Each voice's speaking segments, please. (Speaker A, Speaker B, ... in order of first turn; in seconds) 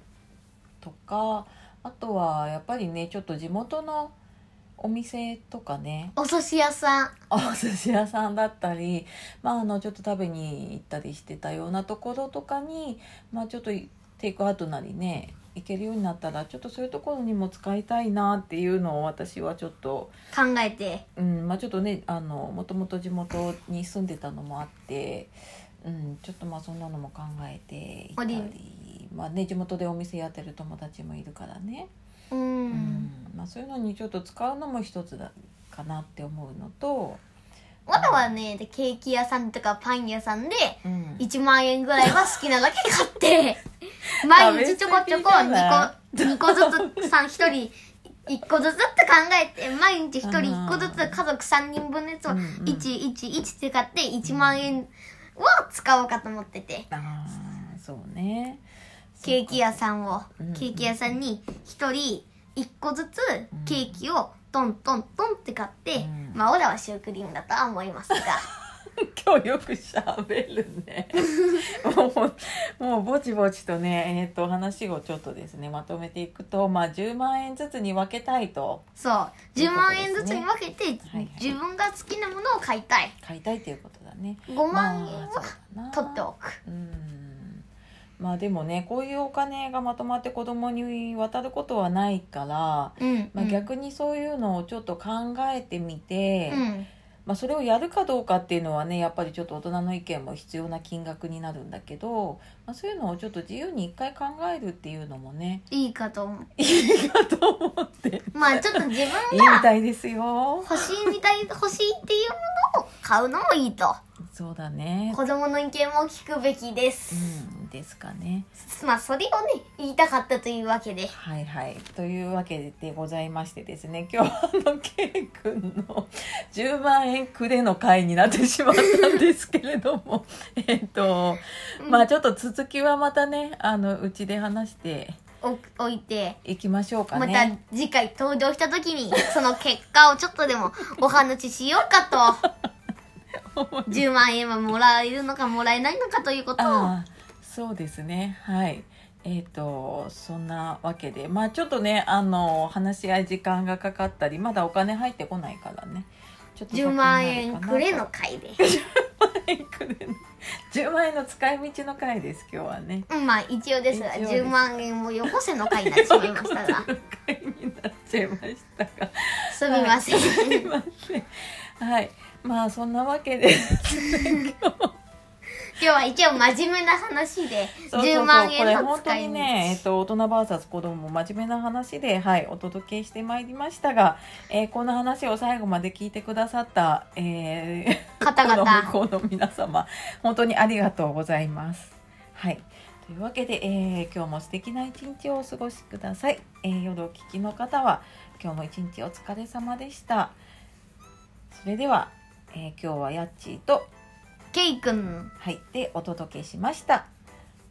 Speaker A: 0.8-4.1, 4.8-6.2, 7.3-20.1, 21.1-31.9, 32.7-37.2, 37.9-38.3, 40.8-41.3, 44.2-47.1, 50.2-51.2, 52.3-52.9, 54.2-54.8, 56.9-58.6, 59.1-59.8, 60.4-61.2, 63.5-64.0, 66.0-66.4, 68.2-78.8, 79.5-80.5, 81.0-81.5, 83.2-87.6, 88.2-96.6, 97.2-105.6, 106.6-110.8, 114.3-115.2, 117.1-118.5, 121.1-135.2, 136.4-137.5, 143.3-144.0, 146.6-158.1, 158.6-163.1, 163.9-174.9, 177.8-200.3, 201.5-203.9, 205.4-207.1
Speaker B: 6.2-7.1, 20.3-21.0, 28.2-28.5, 32.3-33.1, 37.9-56.9, 59.2-68.4, 71.2-71.6, 79.0-83.1, 84.5-86.6, 93.0-93.6, 96.5-96.9, 105.7-106.5, 108.3-109.7, 110.7-114.0, 115.1-117.3, 118.6-121.1, 135.4-136.4, 137.1-142.4, 143.9-146.9, 156.7-158.6, 163.1-166.8, 169.5-170.7, 175.8-179.8, 188.2-188.9, 204.5-205.3